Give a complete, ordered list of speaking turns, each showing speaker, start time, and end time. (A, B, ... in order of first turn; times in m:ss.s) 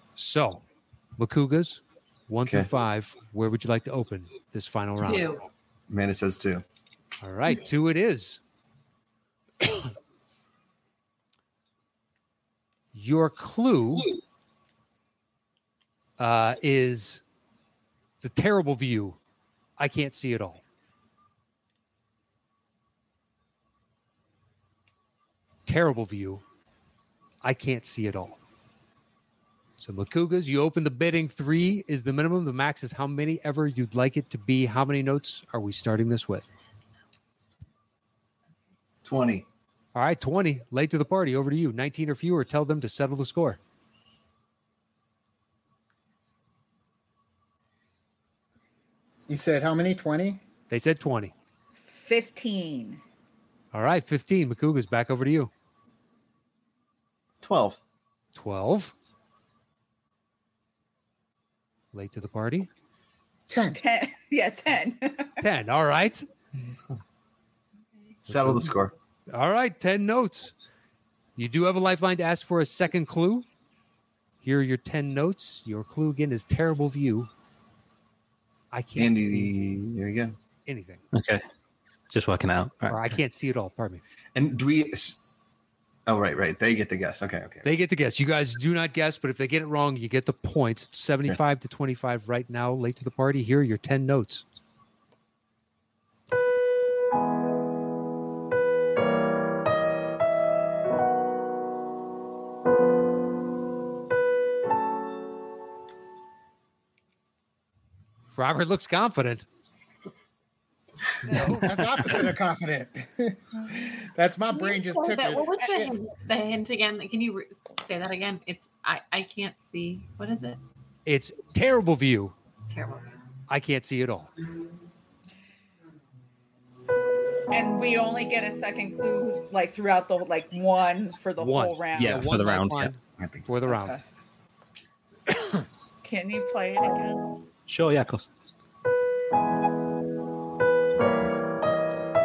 0:00.2-0:00.6 A
0:01.2-0:05.3 A
0:05.0-0:05.4 B
0:05.9-0:06.6 C
0:07.2-0:08.4 A
0:09.6-0:09.9 A
0:12.9-0:14.1 A
0:16.2-0:17.2 A
0:18.2-0:19.2 A
0:19.8-0:20.6 A
0:25.6-0:26.4 A
0:27.4-0:28.4 A
0:29.8-0:36.5 A
0:39.0-0:39.4 C
0:39.9-0:43.6 A
0:49.3-0:50.4 D
0:50.7-0:51.3 A
0:51.9-0:53.0 E
0:53.7-0:55.5 A
0:57.4-0:57.8 C
0:58.3-0:58.9 A
1:01.9-1:02.7 A
1:03.5-1:03.8 D
1:03.7-1:05.4 E
1:05.4-1:06.3 A
1:06.5-1:07.0 C
1:08.2-1:08.9 C
1:08.3-1:08.7 A
1:09.3-1:10.5 A
1:11.4-1:13.5 A
1:14.4-1:17.3 A
1:18.7-1:19.5 A
1:19.0-1:20.3 C
1:20.6-1:21.0 A
1:21.1-1:21.4 F
1:22.1-1:23.0 F
1:22.9-1:24.0 A
1:24.3-1:25.2 C
1:26.1-1:27.6 C
1:27.6-1:34.4 A
1:48.3-1:49.4 A
1:51.3-1:51.7 A
1:51.3-1:55.9 D
1:54.5-2:00.6 B
2:01.0-2:02.3 A
2:02.7-2:03.1 B
2:03.5-2:04.3 A
2:07.5-2:12.3 E
2:11.4-2:14.0 A
2:12.0-2:12.9 F
2:13.2-2:13.5 C
2:13.6-2:14.0 E
2:16.0-2:17.3 E
2:17.7-2:18.2 F